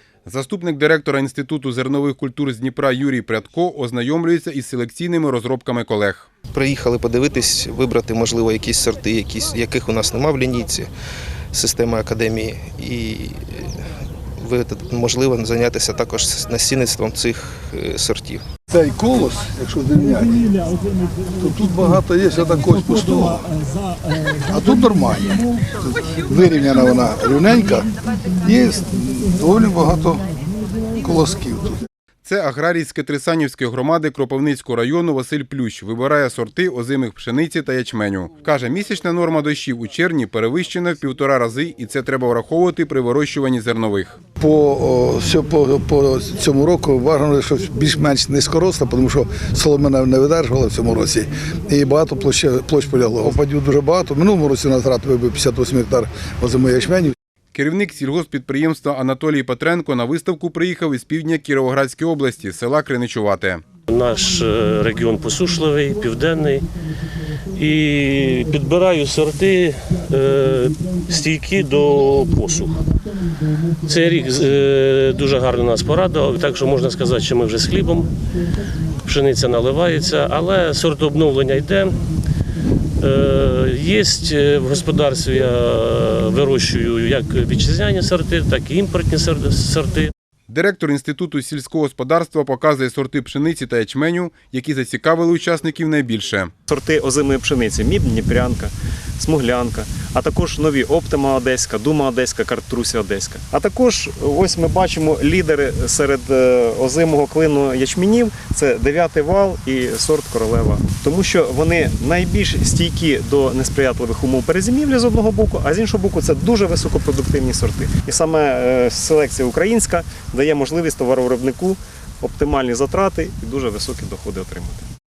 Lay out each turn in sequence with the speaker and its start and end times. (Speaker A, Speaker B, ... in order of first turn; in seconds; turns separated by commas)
Speaker A: 0.2-6.3, Speaker B: 6.5-10.9, Speaker B: 11.5-13.7, Speaker B: 14.4-18.4, Speaker C: 18.7-20.6, Speaker C: 21.3-23.5, Speaker C: 24.5-30.2, Speaker C: 31.0-31.8, Speaker A: 32.2-44.2, Speaker C: 44.4-57.1, Speaker A: 57.5-63.6, Speaker D: 63.9-66.7, Speaker D: 67.5-72.8, Speaker D: 73.8-78.1, Speaker D: 79.0-81.9, Speaker D: 83.0-90.1, Speaker A: 90.5-96.5, Speaker E: 96.7-124.8